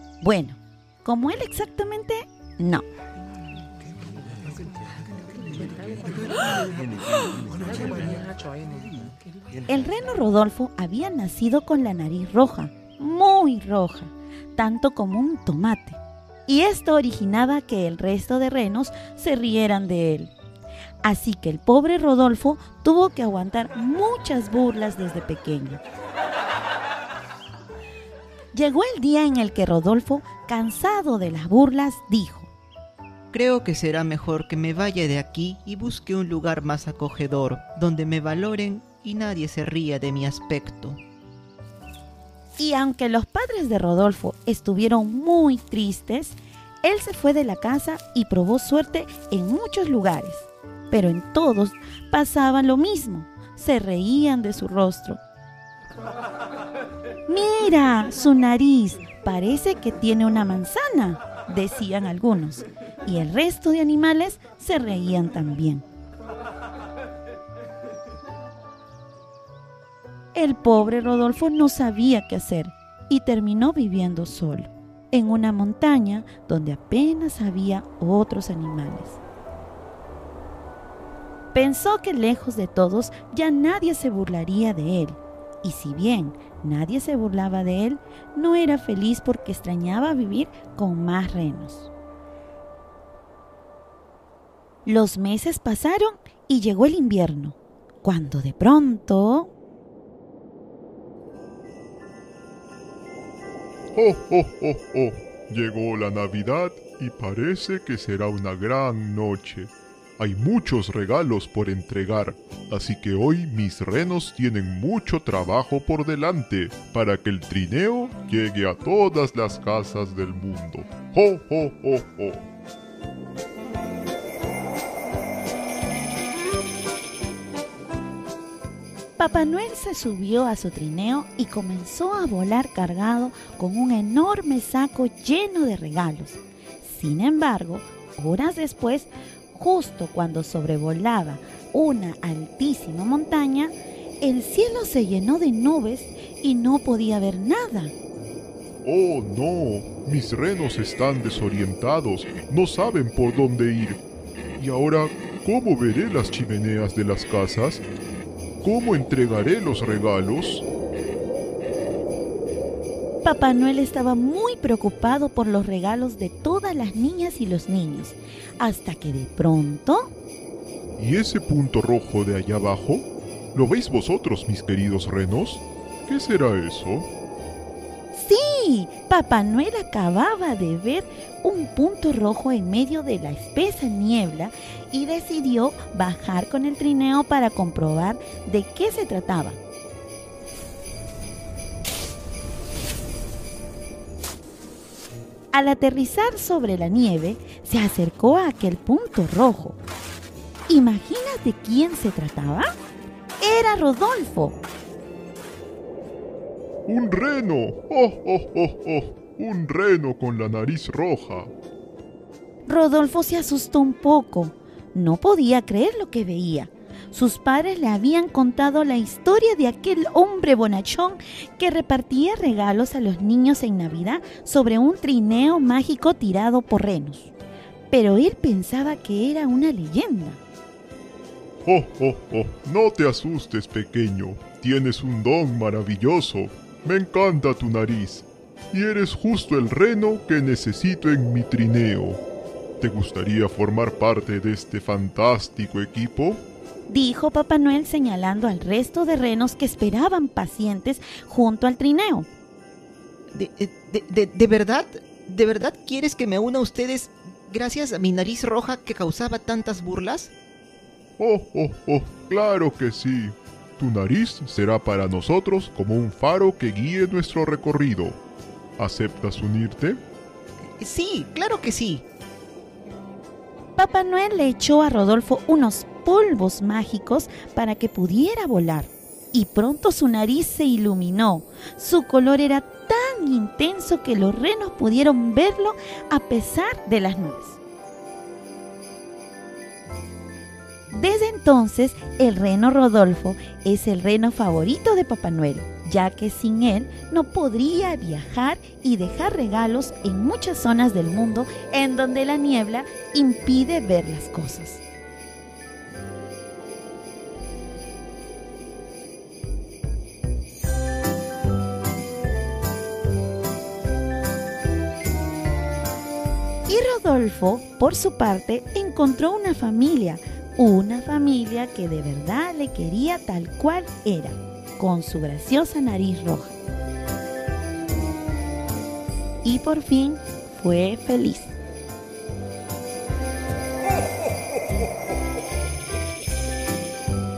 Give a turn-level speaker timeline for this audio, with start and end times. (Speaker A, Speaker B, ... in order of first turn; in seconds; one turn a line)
Speaker A: 0.2-2.9
Speaker A: 9.7-20.3
Speaker A: 21.0-25.8
Speaker A: 28.5-32.5
Speaker B: 33.3-41.0
Speaker A: 42.6-55.2
Speaker A: 57.3-65.8
Speaker A: 70.3-79.2
Speaker A: 81.5-91.9
Speaker A: 94.9-99.5
Speaker C: 104.0-122.4
Speaker A: 129.2-147.9
Speaker C: 148.8-154.0
Speaker C: 154.6-157.8
Speaker C: 158.6-160.7
Speaker A: 163.2-170.1
Speaker C: 171.0-177.1
Speaker A: 178.1-189.6
Speaker A: 195.5-199.8
Speaker A: 200.7-202.7
Speaker A: 203.4-204.6
Speaker C: 206.9-211.5
Speaker A: 212.7-227.3
Speaker A: 227.9-230.4
Speaker C: 231.7-242.2
Speaker C: 242.8-246.4
Speaker A: 246.9-252.3
Speaker B: 253.3-260.3
Speaker C: 261.2-268.2
Speaker C: 268.8-270.0
Speaker B: 270.8-272.0
Speaker A: 273.8-287.6
Speaker A: 290.9-304.8
Speaker A: 316.7-326.6
Speaker A: 329.4-331.5